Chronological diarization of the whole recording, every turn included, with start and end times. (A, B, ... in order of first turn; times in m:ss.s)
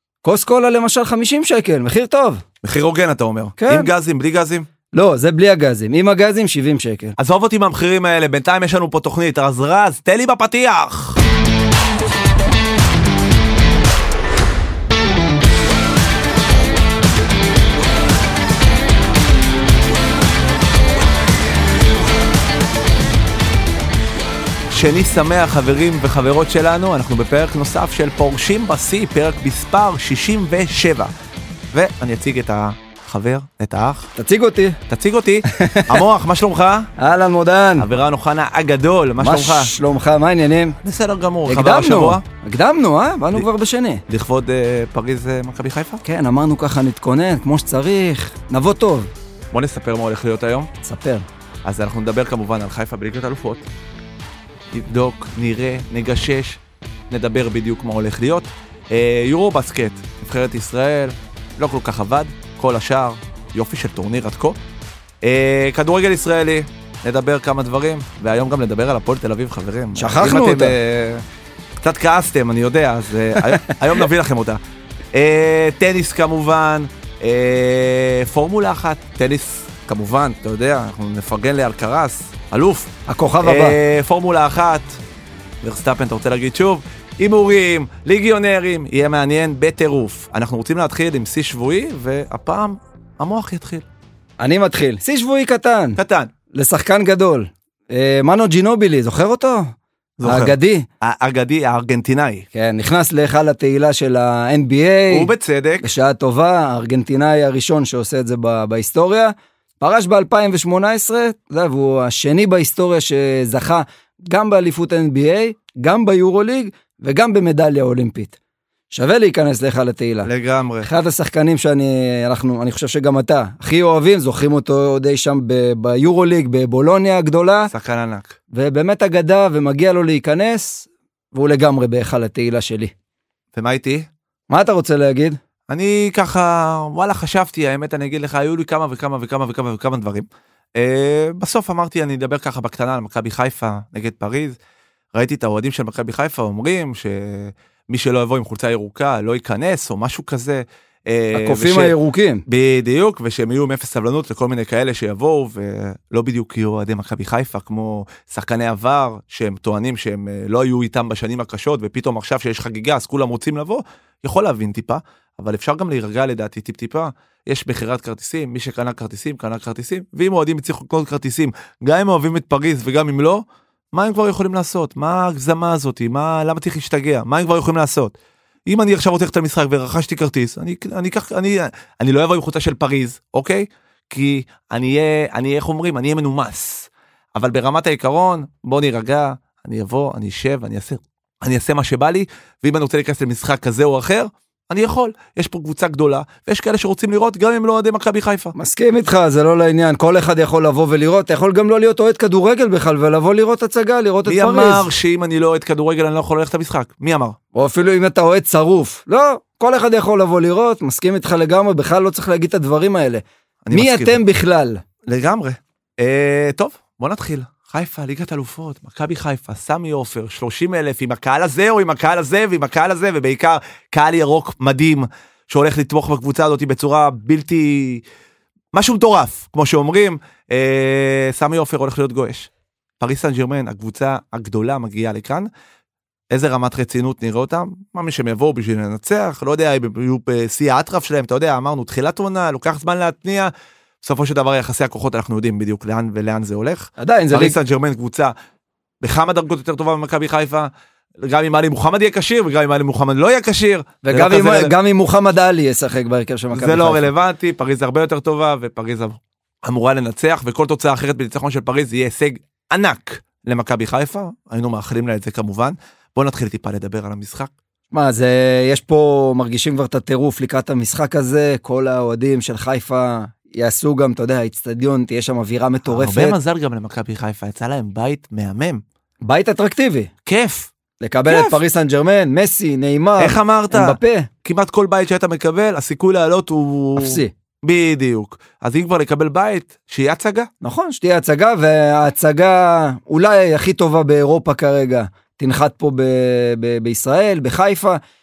0:00.2-0:02.4 A
0:02.6-0:04.7 B
0:03.6-0:03.9 A
0:04.9-0:07.1 A
0:07.2-0:11.2 B
0:24.7-0:31.1 B
0:31.7-0:34.1 B
0:34.2-0:34.8 A
0:34.9-0:36.9 B
0:35.5-0:36.0 A
0:37.0-0:37.9 A
0:37.8-0:39.7 B
0:39.2-0:40.8 A
0:40.8-0:42.2 B
0:41.5-0:44.0 A
0:44.1-0:46.0 B
0:46.0-0:49.1 A
0:49.5-0:50.7 B
0:50.8-0:51.2 A
0:51.6-0:53.6 B
0:54.7-0:56.6 B
0:57.1-1:04.6 B
1:05.2-1:11.2 B
1:09.9-1:10.7 A
1:11.8-1:14.6 B
1:15.1-1:25.0 B
1:23.1-1:23.8 A
1:25.6-1:33.8 B
1:34.4-1:36.0 A
1:36.0-1:36.3 B
1:36.5-1:40.8 A
1:40.2-1:42.5 B
1:42.5-1:45.3 A
1:45.1-1:45.9 B
1:45.8-1:58.4 A
1:58.9-2:00.3 A
2:00.2-2:00.9 B
2:00.8-2:07.7 A
2:07.7-2:08.4 B
2:08.5-2:12.9 A
2:13.6-2:14.1 B
2:14.5-2:15.4 A
2:15.7-2:24.6 B
2:25.1-2:31.9 B
2:31.3-2:32.4 A
2:32.5-2:58.1 B
2:58.7-3:18.5 B
3:18.6-3:24.9 A
3:24.2-3:27.4 B
3:27.5-3:34.8 A
3:33.6-3:34.2 B
3:35.0-3:48.0 B
3:48.7-3:52.5 B
3:53.0-3:55.5 B
3:56.3-4:03.5 B
4:04.0-4:08.3 B
4:07.0-4:07.6 A
4:09.0-4:14.7 B
4:14.0-4:17.1 A
4:16.5-4:27.5 B
4:27.9-4:36.4 A
4:35.9-4:38.8 B
4:39.2-4:40.1 A
4:40.2-4:40.7 B
4:41.0-4:44.3 A
4:41.3-4:41.6 B
4:43.2-4:50.5 B
4:47.0-4:47.3 A
4:50.6-4:58.0 A